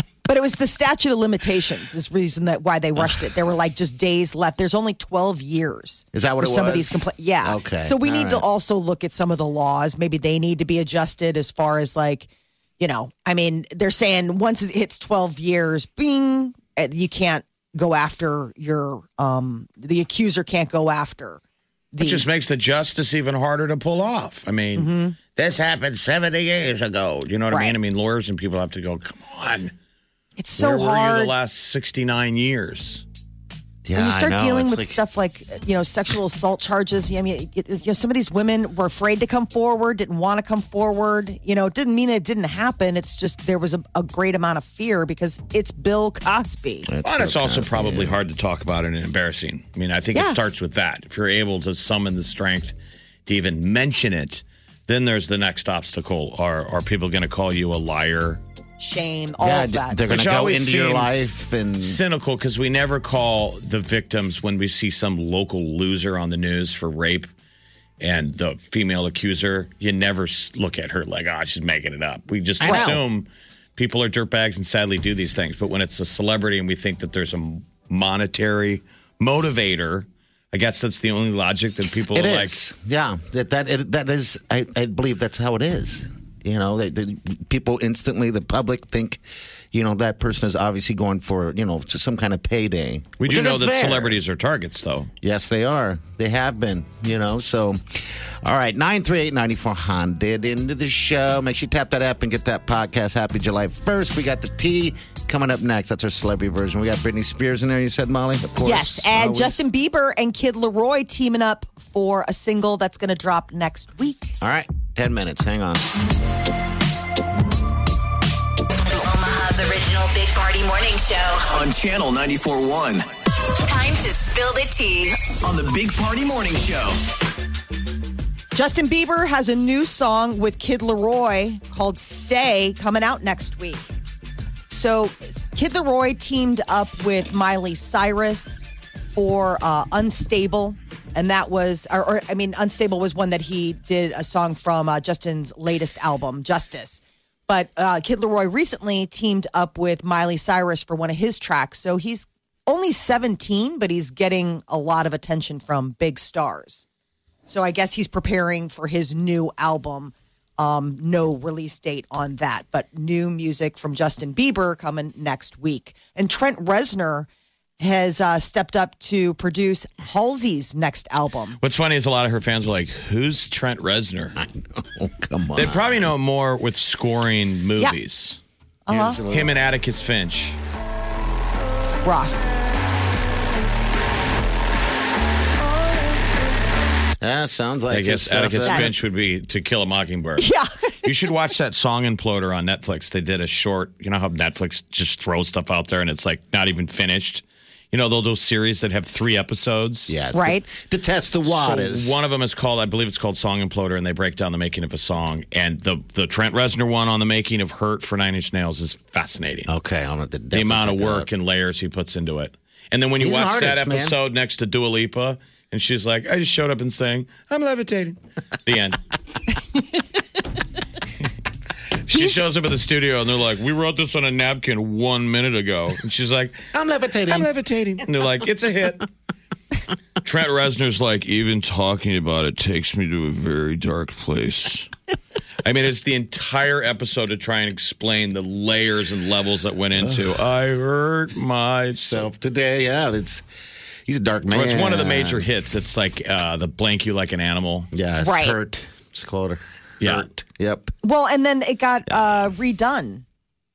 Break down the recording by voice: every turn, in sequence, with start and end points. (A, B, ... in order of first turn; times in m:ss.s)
0:00.3-0:12.3 A
0:06.1-0:08.5 B
0:12.8-0:21.4 A
0:21.9-0:22.3 A
0:22.0-0:29.7 C
0:24.8-0:25.2 A
0:27.5-0:27.8 A
0:30.4-0:31.3 A
0:30.6-0:33.0 C
0:33.8-0:35.0 B
0:34.0-0:46.9 A
0:46.9-0:48.2 B
0:47.0-0:58.4 C
0:58.8-1:00.0 A
0:59.4-1:02.0 B
1:00.1-1:01.3 C
1:01.8-1:07.3 C
1:08.0-1:22.6 C
1:12.6-1:13.0 B
1:12.6-1:13.0 A
1:22.1-1:34.2 B
1:33.2-1:35.1 C
1:35.2-1:49.6 B
1:48.6-1:54.4 A
1:54.4-1:55.9 B
1:58.9-2:01.5 D
2:01.5-2:03.1 E
2:03.6-2:05.2 D
2:05.4-2:07.0 E
2:08.5-2:13.9 A
2:14.7-2:36.9 A
2:37.5-2:47.3 A
2:47.8-2:51.6 A
2:51.6-2:54.4 C
2:54.4-2:56.1 B
2:55.6-2:58.4 C
2:58.9-2:59.2 A
2:58.9-2:59.5 B
2:59.2-3:00.6 C
3:02.0-3:02.5 A
3:05.6-3:06.8 A
3:07.2-3:09.0 B
3:07.9-3:10.5 C
3:08.6-3:08.9 A
3:10.4-3:11.0 A
3:11.0-3:20.1 C
3:20.1-3:22.3 B
3:20.3-3:20.6 A
3:21.5-3:29.7 C
3:29.7-3:31.3 B
3:30.5-3:39.0 C
3:33.2-3:34.2 B
3:42.1-3:46.7 C
3:46.7-3:47.5 B
3:47.3-3:49.1 C
3:50.2-3:54.9 C
3:55.6-4:02.3 C
4:00.0-4:00.4 B
4:02.0-4:03.4 B
4:04.1-4:05.5 B
4:04.5-4:07.9 C
4:07.9-4:10.9 B
4:08.2-4:08.6 A
4:10.0-4:10.3 C
4:11.0-4:13.2 A